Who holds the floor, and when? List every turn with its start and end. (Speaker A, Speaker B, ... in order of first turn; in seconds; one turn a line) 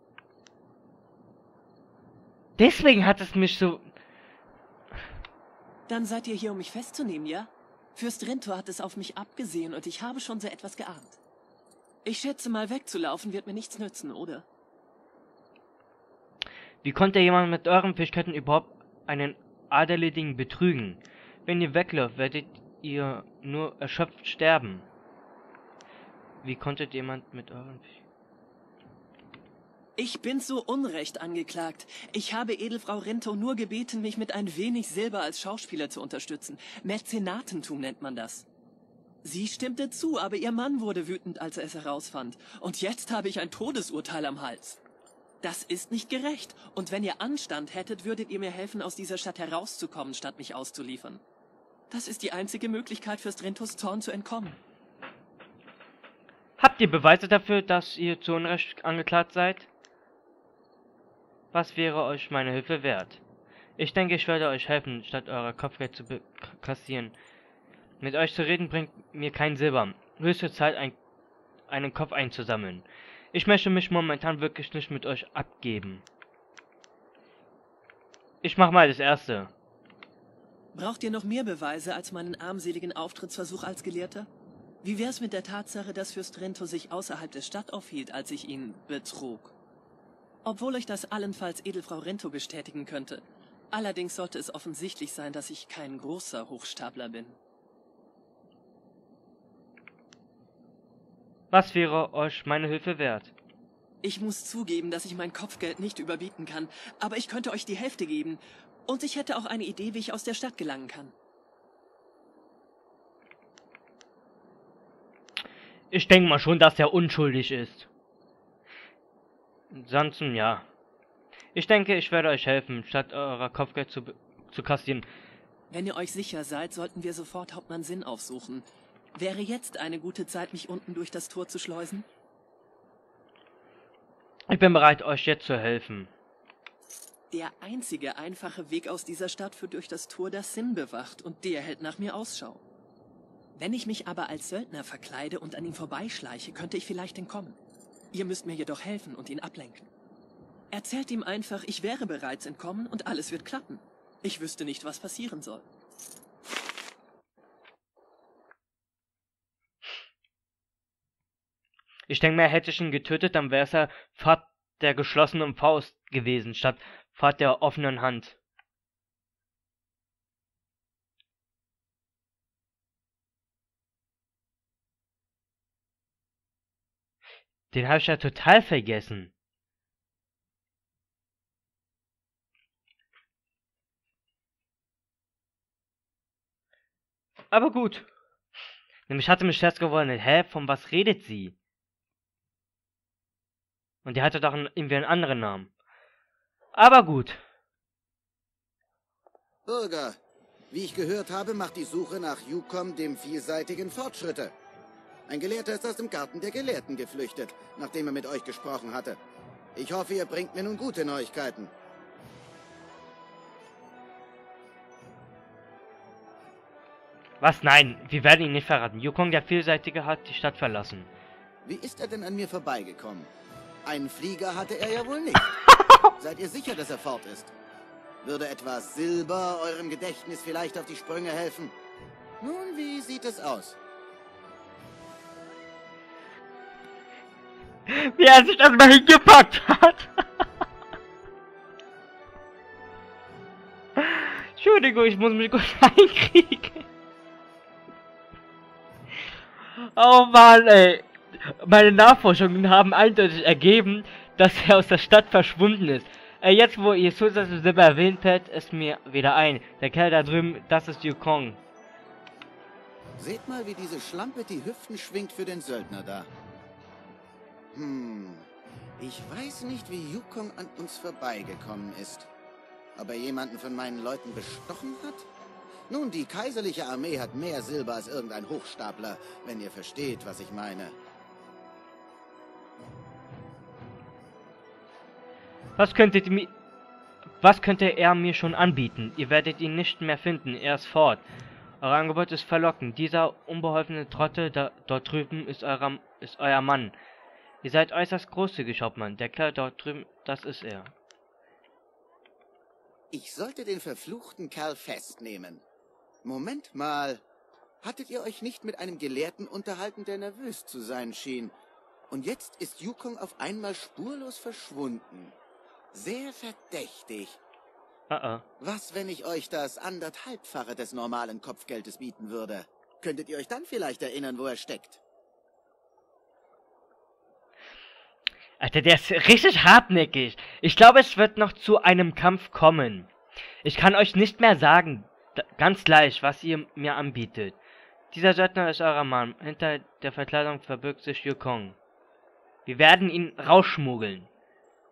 Speaker A: 2.6-3.9
Speaker B: 5.9-11.2
Speaker B: 12.0-14.4
Speaker A: 16.8-24.9
Speaker A: 26.4-27.9
Speaker B: 30.0-38.5
Speaker B: 39.2-44.8
Speaker B: 45.4-51.2
Speaker B: 51.9-54.6
Speaker A: 56.6-59.7
Speaker A: 61.5-63.2
Speaker A: 63.8-67.1
Speaker A: 68.0-71.0
Speaker A: 71.7-76.0
Speaker A: 78.4-79.5
Speaker B: 80.7-84.3
Speaker B: 84.8-89.5
Speaker B: 90.4-97.4
Speaker A: 101.5-103.3
Speaker B: 104.0-111.1
Speaker A: 115.9-117.9
Speaker A: 119.7-120.6
Speaker A: 121.5-125.0
Speaker B: 125.7-132.1
Speaker A: 134.5-136.1
Speaker B: 137.3-142.6
Speaker B: 143.5-147.6
Speaker B: 148.1-149.9
Speaker B: 150.7-155.7
Speaker A: 162.1-168.3
Speaker A: 177.7-179.3
Speaker A: 187.5-188.1
Speaker A: 189.1-191.5
Speaker A: 194.0-195.7
Speaker A: 196.7-197.4
Speaker C: 199.7-200.2
Speaker C: 200.7-204.5
Speaker C: 205.3-209.2
Speaker C: 209.7-211.7
Speaker A: 217.4-221.1
Speaker C: 221.6-223.3
Speaker C: 223.8-225.6
Speaker C: 226.1-227.5
Speaker C: 228.2-231.7
Speaker C: 232.4-233.8
Speaker A: 237.9-240.1
Speaker A: 244.0-246.8
Speaker A: 249.9-261.6
Speaker C: 263.2-266.3
Speaker C: 267.7-272.3
Speaker C: 272.9-275.3
Speaker C: 275.9-280.9
Speaker A: 285.8-286.5
Speaker A: 287.4-291.2
Speaker A: 291.8-296.9
Speaker A: 297.6-300.9
Speaker C: 303.1-305.6
Speaker C: 306.2-307.2
Speaker C: 307.8-311.5
Speaker C: 312.1-315.4
Speaker C: 315.9-317.4
Speaker A: 318.1-318.4
Speaker C: 318.6-325.0
Speaker A: 328.6-333.1
Speaker A: 333.6-337.6
Speaker A: 338.1-341.8
Speaker A: 342.6-344.3